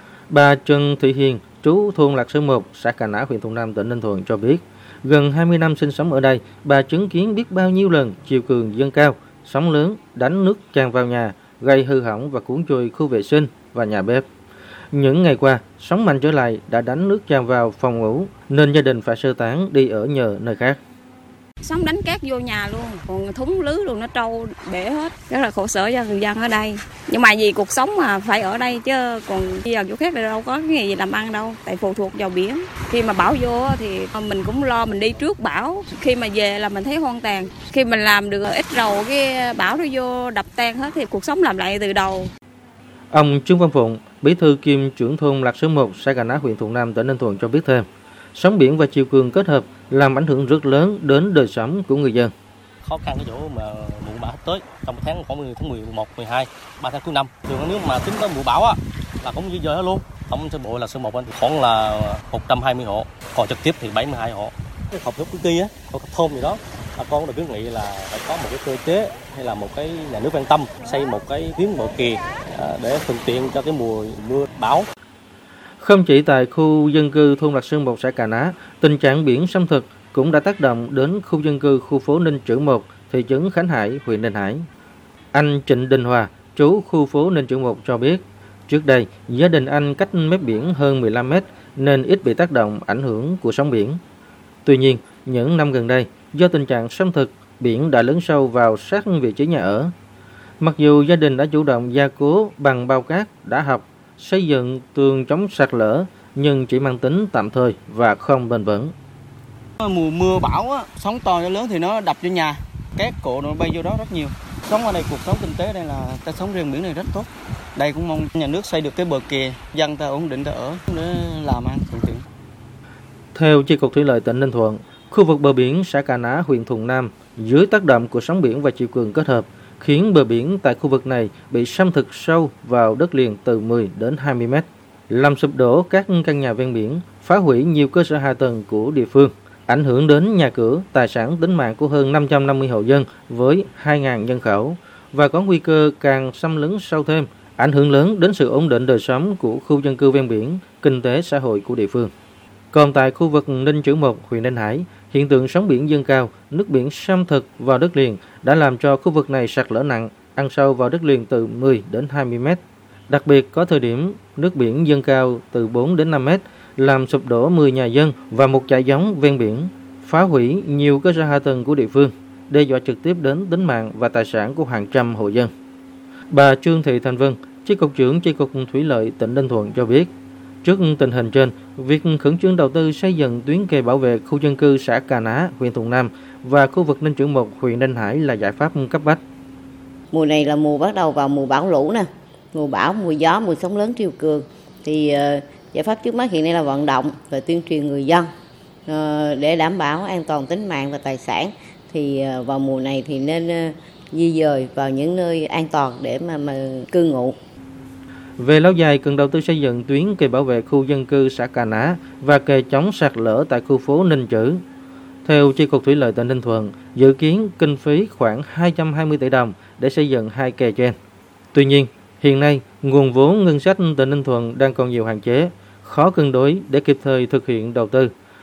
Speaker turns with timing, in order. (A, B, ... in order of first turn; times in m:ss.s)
0:00.3-0:14.3 A
0:14.9-0:20.8 A
0:21.6-0:42.3 B
0:43.1-0:52.3 A
0:52.9-1:14.9 C
1:15.8-1:24.6 A
1:25.3-1:34.0 A
1:34.7-1:39.9 A
1:40.6-1:48.9 A
1:49.8-2:02.2 D
2:03.4-2:32.1 A
2:32.7-2:55.5 A
2:56.3-3:00.1 A
3:00.6-3:09.2 A
3:10.1-3:18.3 E
3:18.9-3:27.4 E
3:28.4-3:34.6 A
3:35.2-3:41.0 A
3:41.5-3:48.1 A